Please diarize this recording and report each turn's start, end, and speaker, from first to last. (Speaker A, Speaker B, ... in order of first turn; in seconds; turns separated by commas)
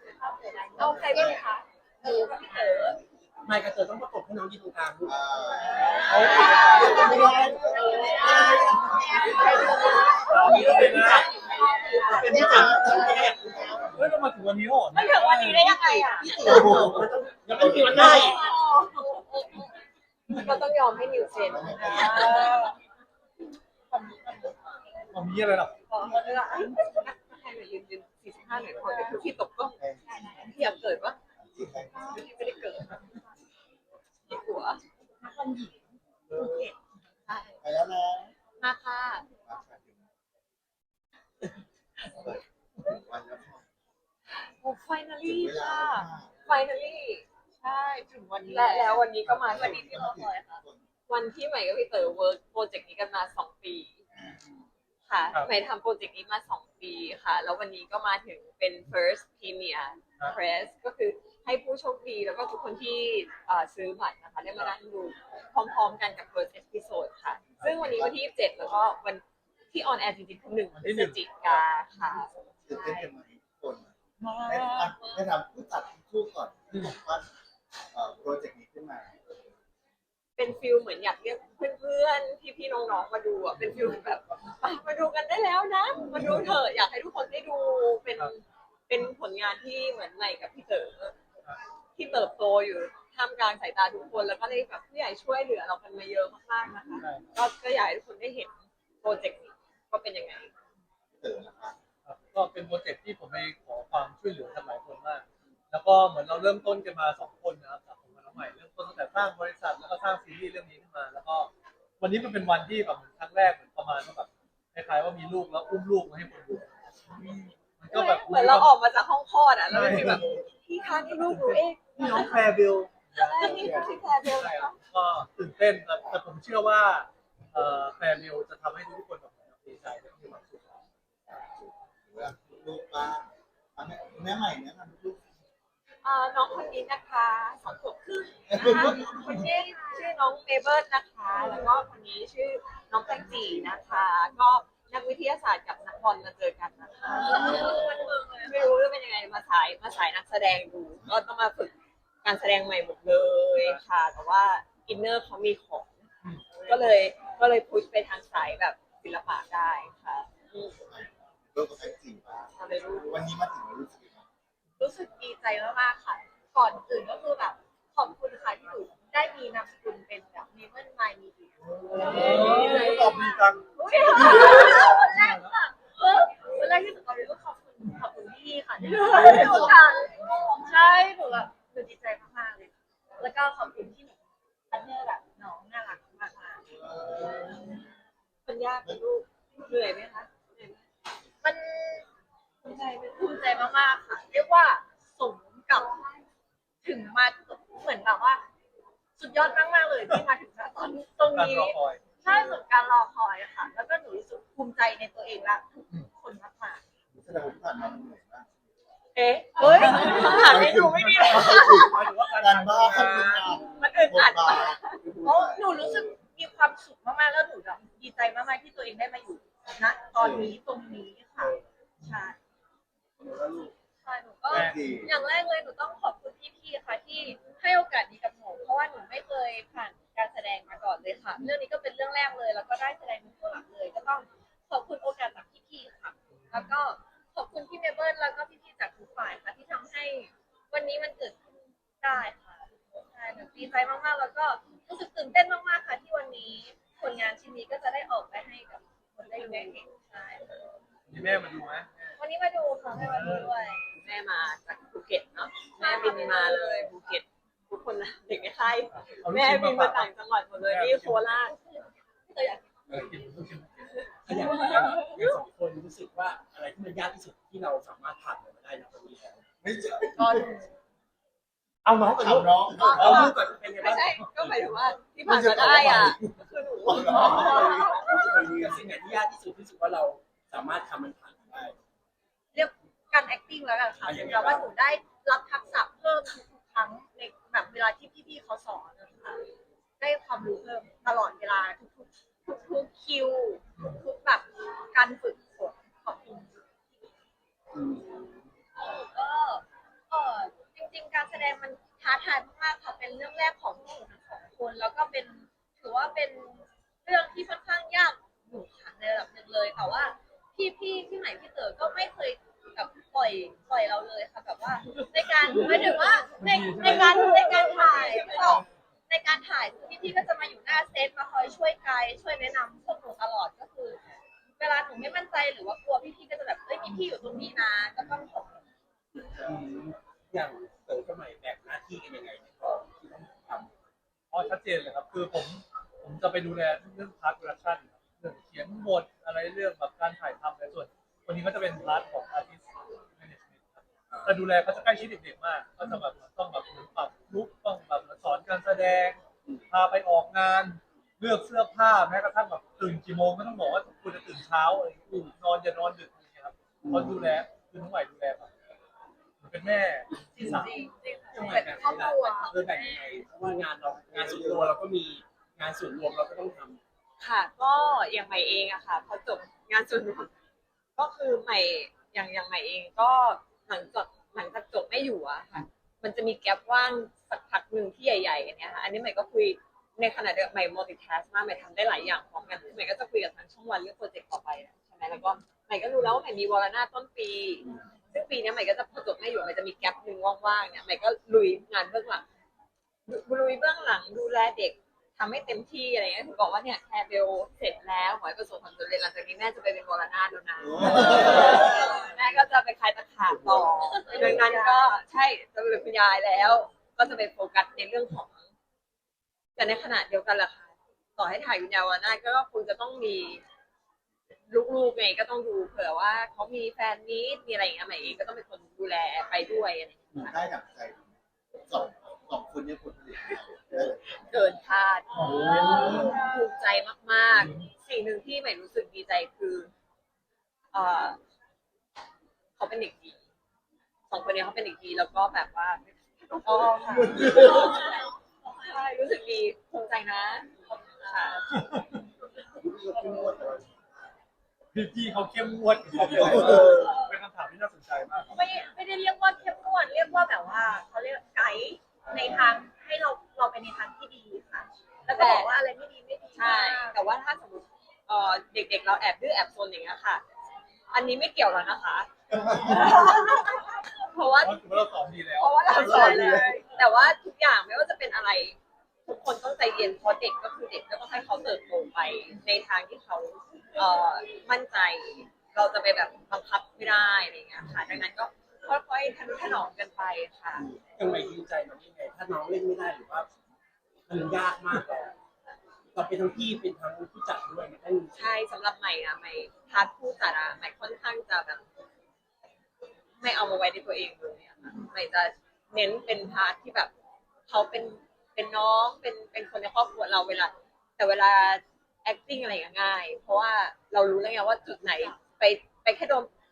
Speaker A: 0.2-2.9, Speaker B: 0.7-1.5, Speaker C: 2.0-3.0, Speaker D: 3.4-5.2, Speaker B: 5.0-10.7, Speaker A: 5.6-12.9, Speaker D: 5.8-7.2, Speaker E: 6.0-7.8, Speaker C: 6.2-6.9, Speaker D: 7.9-13.8, Speaker C: 7.9-8.6, Speaker C: 9.4-10.8, Speaker E: 10.2-11.3, Speaker B: 12.1-14.1, Speaker E: 13.9-15.8, Speaker C: 14.9-16.6, Speaker A: 15.5-16.9, Speaker D: 16.2-18.5, Speaker B: 16.3-18.3, Speaker A: 17.9-19.6, Speaker C: 17.9-19.7, Speaker C: 20.3-22.7, Speaker B: 21.1-22.5, Speaker A: 21.6-22.8, Speaker A: 23.9-24.6, Speaker E: 25.1-25.8, Speaker C: 25.9-29.8, Speaker A: 26.1-26.8, Speaker A: 28.8-29.2, Speaker B: 29.8-32.5, Speaker A: 30.1-30.4, Speaker C: 30.4-31.2, Speaker C: 32.0-33.0, Speaker C: 34.3-34.8, Speaker A: 35.2-36.7, Speaker B: 36.3-36.7, Speaker B: 37.6-38.3, Speaker C: 38.6-39.3, Speaker B: 39.5-40.0, Speaker B: 42.1-43.7, Speaker C: 44.4-47.3, Speaker B: 45.2-46.6, Speaker A: 48.1-49.0, Speaker C: 48.4-49.9, Speaker B: 49.3-50.8, Speaker A: 49.7-50.6, Speaker C: 51.1-54.0, Speaker B: 54.1-54.6, Speaker C: 55.1-72.3, Speaker B: 67.6-68.5, Speaker E: 70.8-71.7, Speaker B: 72.7-77.3, Speaker A: 72.7-73.1, Speaker A: 74.2-75.0, Speaker B: 77.9-79.2, Speaker C: 80.4-91.2, Speaker C: 92.0-100.5, Speaker B: 101.2-101.8, Speaker E: 102.0-118.8, Speaker C: 117.9-122.3, Speaker E: 119.7-120.4, Speaker E: 121.1-130.8, Speaker C: 123.1-124.8, Speaker B: 132.1-135.2, Speaker C: 136.0-156.0, Speaker B: 138.5-139.3, Speaker A: 138.6-140.2, Speaker B: 147.1-148.1, Speaker A: 147.1-148.7, Speaker E: 153.6-153.8, Speaker E: 156.2-156.8, Speaker C: 156.7-160.7, Speaker B: 160.8-164.2, Speaker C: 162.6-163.2, Speaker A: 164.8-184.2, Speaker E: 171.9-175.5, Speaker C: 172.1-172.5, Speaker C: 174.1-174.8, Speaker E: 179.1-179.7, Speaker C: 179.1-179.7, Speaker A: 184.7-186.6, Speaker B: 186.7-187.7, Speaker C: 188.4-190.8, Speaker A: 191.4-192.1, Speaker A: 192.6-196.0, Speaker A: 196.8-198.4, Speaker A: 199.2-206.8, Speaker E: 201.2-202.1, Speaker B: 207.2-208.5, Speaker C: 209.2-212.0, Speaker A: 209.6-210.5, Speaker E: 210.1-213.5, Speaker B: 210.6-210.8, Speaker A: 211.5-211.8, Speaker B: 212.4-216.0, Speaker C: 213.6-215.0, Speaker A: 215.2-222.3, Speaker B: 220.2-220.6, Speaker B: 223.2-223.7, Speaker A: 224.0-241.4, Speaker E: 224.5-224.8, Speaker B: 224.5-225.1, Speaker E: 236.4-236.7, Speaker A: 242.0-250.6, Speaker C: 249.2-249.8, Speaker E: 251.1-252.2, Speaker A: 252.2-253.9, Speaker E: 252.9-253.5, Speaker C: 253.9-261.6, Speaker A: 255.8-257.0, Speaker E: 258.9-261.4, Speaker A: 261.6-263.0, Speaker E: 262.9-265.4, Speaker D: 264.2-269.4, Speaker A: 264.3-265.0, Speaker B: 269.6-270.5, Speaker A: 270.2-270.7, Speaker E: 271.9-273.4, Speaker D: 272.2-274.4, Speaker B: 272.2-273.2, Speaker A: 272.8-273.4, Speaker C: 273.8-278.2, Speaker B: 275.3-276.2, Speaker D: 275.7-276.2, Speaker B: 276.8-278.9, Speaker A: 276.9-278.2, Speaker D: 277.0-281.8, Speaker A: 282.5-289.4, Speaker D: 284.0-284.7, Speaker A: 290.0-296.6, Speaker B: 297.7-298.2, Speaker A: 298.8-324.0, Speaker E: 314.8-317.7, Speaker C: 316.8-318.6, Speaker A: 324.6-328.5, Speaker B: 328.0-328.3, Speaker B: 329.2-329.7, Speaker D: 329.4-333.7, Speaker E: 334.3-342.6, Speaker E: 343.2-358.5, Speaker D: 355.1-355.4, Speaker B: 356.9-357.1, Speaker E: 359.4-360.8, Speaker A: 360.4-362.9, Speaker D: 361.3-366.8, Speaker C: 362.0-362.6, Speaker B: 363.8-364.8, Speaker C: 367.2-370.3, Speaker C: 371.0-392.2, Speaker C: 393.1-408.4, Speaker B: 400.6-401.8, Speaker A: 400.9-402.1, Speaker A: 403.7-404.9, Speaker C: 409.6-413.4, Speaker C: 414.5-420.3, Speaker B: 420.1-421.1, Speaker B: 421.6-424.2, Speaker C: 423.8-429.7, Speaker B: 425.2-426.2, Speaker D: 425.4-426.0, Speaker A: 425.8-426.2, Speaker C: 430.7-431.2, Speaker C: 432.6-433.2, Speaker C: 434.1-438.1, Speaker A: 436.4-438.1, Speaker C: 438.6-441.4, Speaker E: 441.5-442.0, Speaker B: 442.5-443.8, Speaker A: 442.9-443.4, Speaker E: 444.8-448.3, Speaker B: 446.0-446.9, Speaker D: 446.2-446.6, Speaker A: 448.2-457.1, Speaker C: 455.1-455.5, Speaker C: 456.4-460.2, Speaker C: 460.9-462.1, Speaker B: 462.3-463.3, Speaker C: 462.8-464.7, Speaker E: 464.4-465.9, Speaker C: 465.4-480.7, Speaker A: 465.7-466.7, Speaker B: 465.7-466.6, Speaker D: 480.6-483.3, Speaker D: 484.1-485.2, Speaker D: 485.9-488.2, Speaker C: 488.1-491.6, Speaker C: 493.2-496.9, Speaker C: 497.5-506.3